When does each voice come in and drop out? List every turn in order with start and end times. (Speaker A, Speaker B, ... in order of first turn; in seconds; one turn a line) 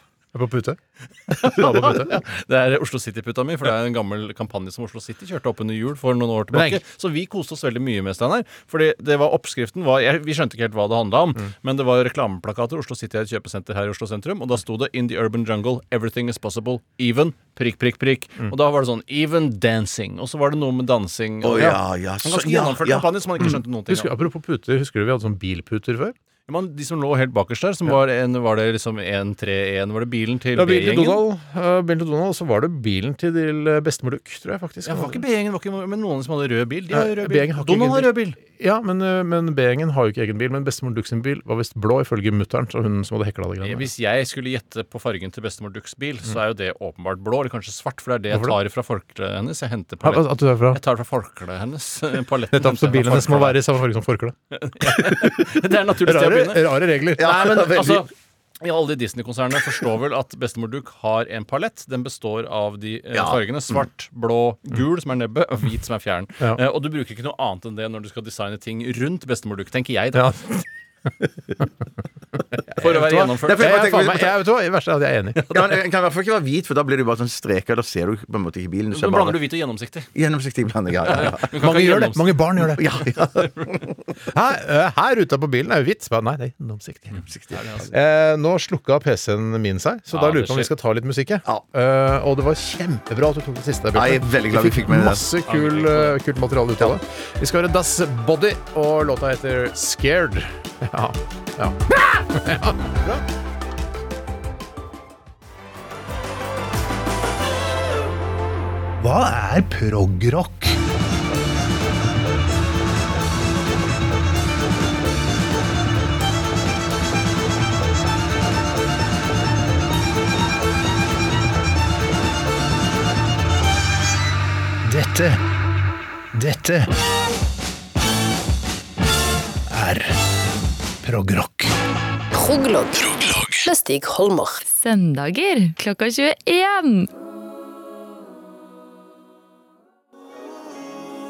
Speaker A: 0.3-0.8
Speaker A: 1.4-2.1
Speaker B: 1.4-24.1
Speaker A: 6.5-6.8
Speaker C: 21.4-23.1
Speaker A: 23.9-26.1
Speaker B: 26.5-31.2
Speaker A: 30.6-35.2
Speaker B: 34.9-38.4
Speaker A: 36.9-43.9
Speaker B: 43.6-53.6
Speaker A: 50.0-50.8
Speaker A: 52.5-55.4
Speaker B: 54.5-58.1
Speaker A: 56.0-57.3
Speaker C: 57.2-58.1
Speaker B: 58.6-70.4
Speaker C: 63.1-63.4
Speaker A: 70.1-70.6
Speaker A: 71.2-71.6
Speaker A: 72.7-75.5
Speaker B: 72.8-73.9
Speaker C: 73.3-74.3
Speaker C: 75.5-79.4
Speaker B: 78.9-80.1
Speaker C: 80.1-81.5
Speaker B: 81.0-82.4
Speaker A: 81.5-82.8
Speaker C: 82.7-83.9
Speaker B: 83.4-83.7
Speaker A: 84.3-87.2
Speaker B: 87.5-87.9
Speaker A: 87.9-102.8
Speaker B: 90.1-90.7
Speaker C: 93.9-95.2
Speaker B: 95.5-96.2
Speaker D: 109.0-110.8
Speaker D: 124.8-125.4
Speaker D: 126.3-126.9
Speaker D: 129.7-130.1
Speaker D: 131.0-131.7
Speaker E: 132.3-134.6
Speaker F: 134.6-137.1